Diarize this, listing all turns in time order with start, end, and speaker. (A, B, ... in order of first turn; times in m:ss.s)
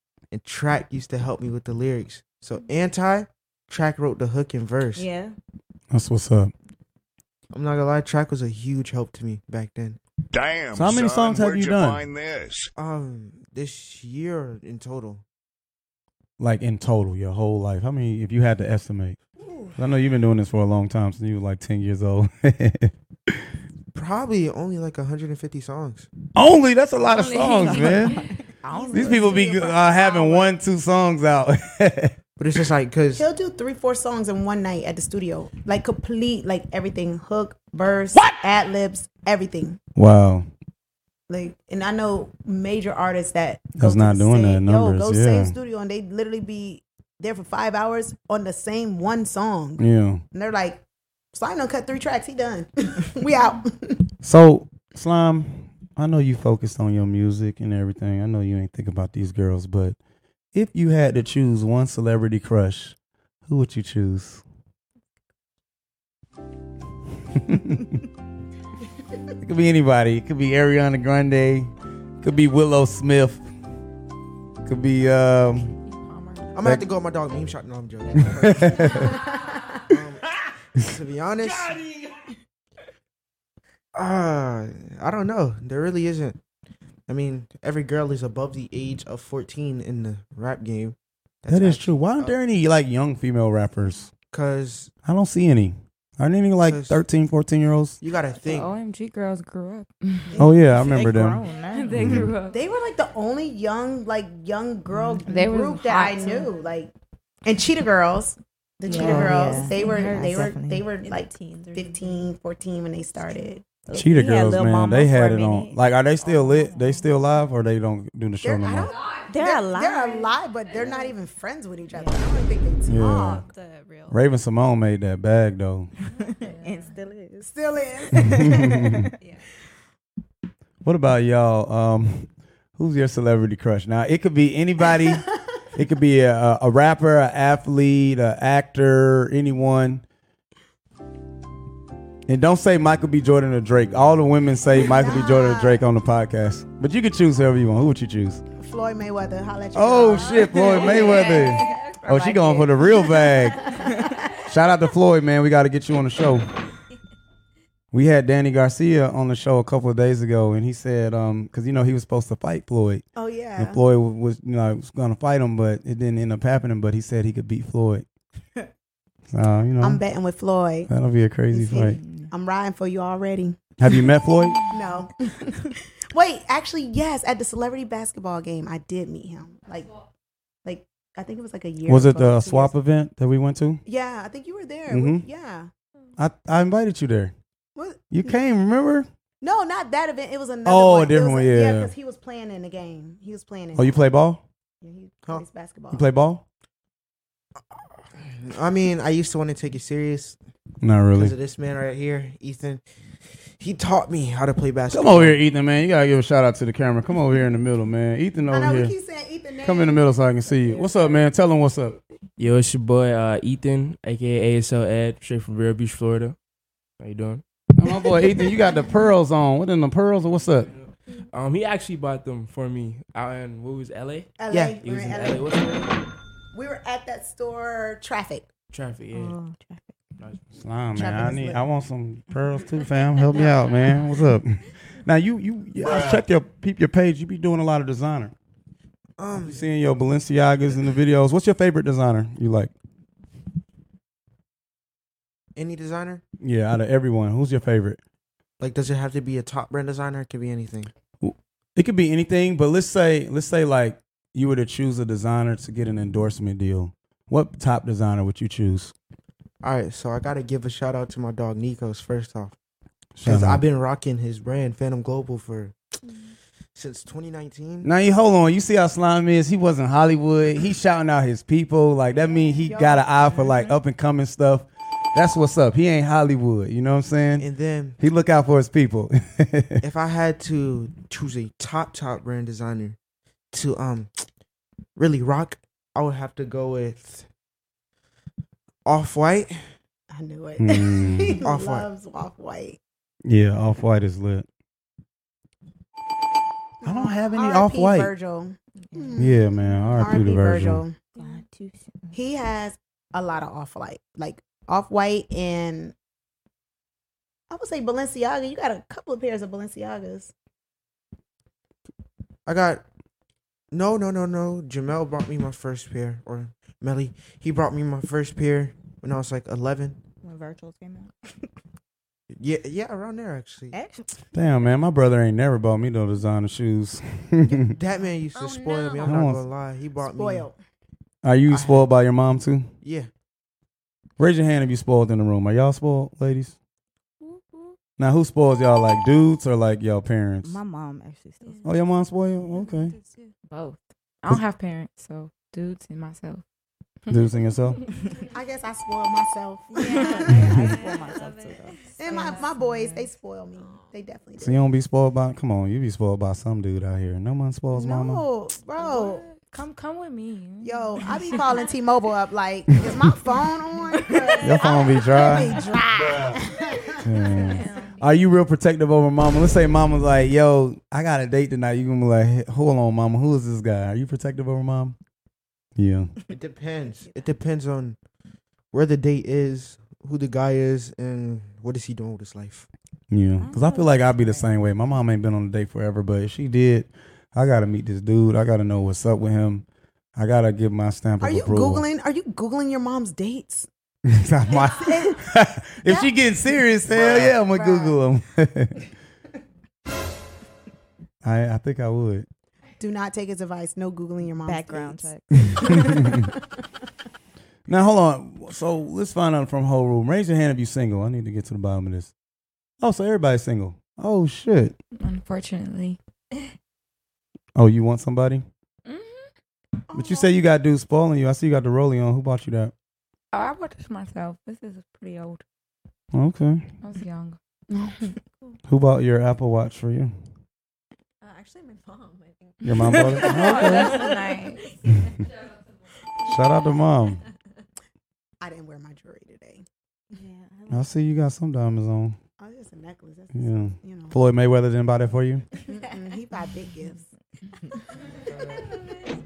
0:00.3-0:05.1 A
0:05.0-0:05.4 B
0:05.9-0:06.5 C
0:07.5-0:10.0 A
0:10.3-0:12.7 D
0:10.7-0:12.0 C
0:12.8-0:15.2 A
0:16.4-0:19.2 C
0:19.8-0:23.4 C
0:23.9-0:26.1 A
0:26.4-0:28.2 C
0:27.1-0:28.3 E
0:28.6-0:30.5 F
0:28.8-0:29.2 B
0:28.9-0:32.2 C
0:32.4-0:33.2 A
0:33.2-0:39.8 F
0:40.0-0:40.5 C
0:41.3-0:50.8 F
0:43.8-0:45.6 C
0:49.8-0:50.2 C
0:51.3-0:54.1 F
0:54.2-1:00.0 C
1:00.5-1:03.0 C
1:03.5-1:04.4 C
1:07.3-1:08.0 C
1:09.4-1:13.4 C
1:14.6-1:15.7 C
1:15.9-1:16.5 E
1:16.6-1:19.2 A
1:18.3-1:19.1 C
1:19.9-1:21.8 A
1:24.0-1:26.4 A
1:27.1-1:32.4 A
1:31.5-1:34.1 C
1:34.3-1:34.9 A
1:35.0-1:38.0 C
1:36.6-1:37.0 A
1:38.0-1:38.8 A
1:38.4-1:40.4 E
1:40.4-1:41.4 C
1:40.5-1:42.2 B
1:41.7-1:42.6 E
1:42.0-1:42.3 C
1:42.5-1:46.9 F
1:45.2-1:46.5 E
1:47.4-1:53.6 F
1:48.9-1:50.9 B
1:48.9-1:50.0 E
1:51.0-1:52.3 G
1:53.9-1:57.1 B
1:53.9-1:58.9 C
1:58.4-2:03.4 F
1:59.3-2:00.4 B
2:00.8-2:01.1 G
2:01.9-2:02.2 B
2:02.9-2:03.4 C
2:03.0-2:04.2 G
2:04.1-2:05.9 C
2:06.2-2:06.9 G
2:06.2-2:07.5 B
2:07.5-2:08.7 F
2:08.1-2:09.1 B
2:08.4-2:09.1 C
2:09.2-2:09.5 G
2:10.8-2:20.0 C
2:22.3-2:28.4 C
2:24.7-2:25.8 F
2:28.6-2:31.5 F
2:29.7-2:33.7 C
2:30.4-2:32.1 G
2:30.5-2:31.5 B
2:32.0-2:33.0 B
2:33.3-2:34.3 F
2:34.4-2:36.5 C
2:37.9-2:43.0 C
2:43.2-2:43.8 F
2:43.6-2:48.1 C
2:49.3-2:50.0 C
2:49.8-2:50.9 F
2:50.9-2:52.0 C
2:51.5-2:53.6 F
2:51.7-2:52.3 B
2:53.8-2:54.7 C
2:54.6-2:59.9 F
3:00.6-3:02.7 F
3:01.9-3:03.8 C
3:03.9-3:05.7 F
3:04.9-3:05.2 C
3:06.2-3:07.3 C
3:07.8-3:08.3 F
3:08.1-3:09.1 C
3:09.4-3:14.1 F
3:10.6-3:11.9 C
3:13.8-3:14.4 C
3:14.8-3:16.1 F
3:15.9-3:16.4 C
3:17.7-3:20.4 A
3:20.8-3:21.3 C
3:21.1-3:22.8 A
3:23.6-3:25.4 A
3:24.9-3:28.9 C
3:28.5-3:31.2 F
3:29.6-3:32.0 C
3:32.4-3:36.4 H
3:37.0-3:37.4 H
3:37.8-3:40.7 C
3:40.7-3:46.0 H
3:44.4-3:45.5 F
3:44.5-3:44.8 A
3:46.5-3:48.5 F
3:48.7-3:49.4 H
3:49.1-3:49.9 B
3:50.2-3:50.4 H
3:50.6-3:58.3 C
3:51.0-3:51.6 F
3:59.2-3:59.6 A
3:59.3-4:02.7 C
4:05.6-4:06.2 A
4:06.4-4:08.0 C
4:08.6-4:10.9 A
4:11.2-4:18.9 C
4:19.6-4:22.6 A
4:23.2-4:23.6 C
4:23.2-4:25.8 A
4:26.8-4:27.9 A
4:27.8-4:39.8 C
4:32.1-4:33.5 F
4:37.4-4:38.0 A
4:39.8-4:43.0 A
4:43.5-4:44.3 A
4:45.0-4:47.3 A
4:48.9-4:49.7 A
4:50.1-4:52.8 F
4:50.6-4:51.4 C
4:51.4-4:51.9 A
4:53.2-4:54.5 C
4:56.8-4:59.4 F
4:56.8-4:58.1 C
4:58.9-4:59.2 B
4:59.2-5:00.8 C
5:00.0-5:01.0 F
5:01.2-5:02.2 B
5:02.1-5:06.0 F
5:07.5-5:10.3 F
5:12.5-5:12.8 A
5:13.7-5:20.0 A
5:20.2-5:21.5 B
5:22.3-5:23.8 A
5:23.7-5:24.2 B
5:24.3-5:27.6 C
5:27.4-5:30.5 A
5:28.3-5:29.2 G
5:29.0-5:29.4 C
5:30.0-5:30.6 F
5:31.2-5:32.7 C
5:31.5-5:31.9 A
5:32.8-5:33.1 A
5:34.2-5:36.6 C
5:38.0-5:40.6 C
5:40.4-5:41.7 B
5:41.4-5:41.8 G
5:41.6-5:43.0 C
5:42.5-5:43.3 G
5:43.5-5:46.4 E
5:47.1-5:47.8 E
5:47.1-5:47.8 C
5:48.3-5:50.6 F
5:49.7-5:52.4 G
5:49.9-5:51.9 B
5:50.4-5:50.7 C
5:52.0-5:54.6 F
5:52.0-5:53.1 E
5:53.6-5:54.0 G
5:54.4-5:58.2 C
5:57.7-5:59.2 F
5:58.8-6:01.7 E
6:00.6-6:07.1 F
6:04.4-6:05.6 C
6:06.0-6:06.4 D
6:07.0-6:15.0 C
6:07.4-6:08.0 E
6:15.8-6:16.1 C
6:16.3-6:18.0 A
6:18.7-6:22.7 A
6:23.1-6:31.8 C
6:23.4-6:24.5 B
6:31.2-6:33.7 F
6:34.0-6:38.9 C
6:34.5-6:35.2 F
6:35.9-6:36.2 F
6:36.9-6:37.3 D
6:37.3-6:38.0 F
6:41.2-6:42.3 C
6:42.8-6:46.4 F
6:44.4-6:46.1 B
6:45.6-6:46.2 C
6:47.7-6:52.1 C
6:52.8-6:54.8 C
6:55.0-6:56.0 E
6:57.6-6:58.4 C
6:58.9-6:59.3 E
6:59.9-7:00.3 F
6:59.9-7:02.7 C
7:03.3-7:05.4 E
7:06.1-7:06.7 C
7:06.8-7:08.2 E
7:08.7-7:10.1 C
7:11.2-7:15.3 G
7:12.6-7:14.0 C
7:12.7-7:14.6 E
7:16.3-7:17.2 C
7:18.4-7:19.6 F
7:20.1-7:20.9 B
7:20.7-7:22.2 C
7:22.4-7:24.2 F
7:23.3-7:25.4 C
7:25.7-7:27.1 F
7:28.4-7:28.8 G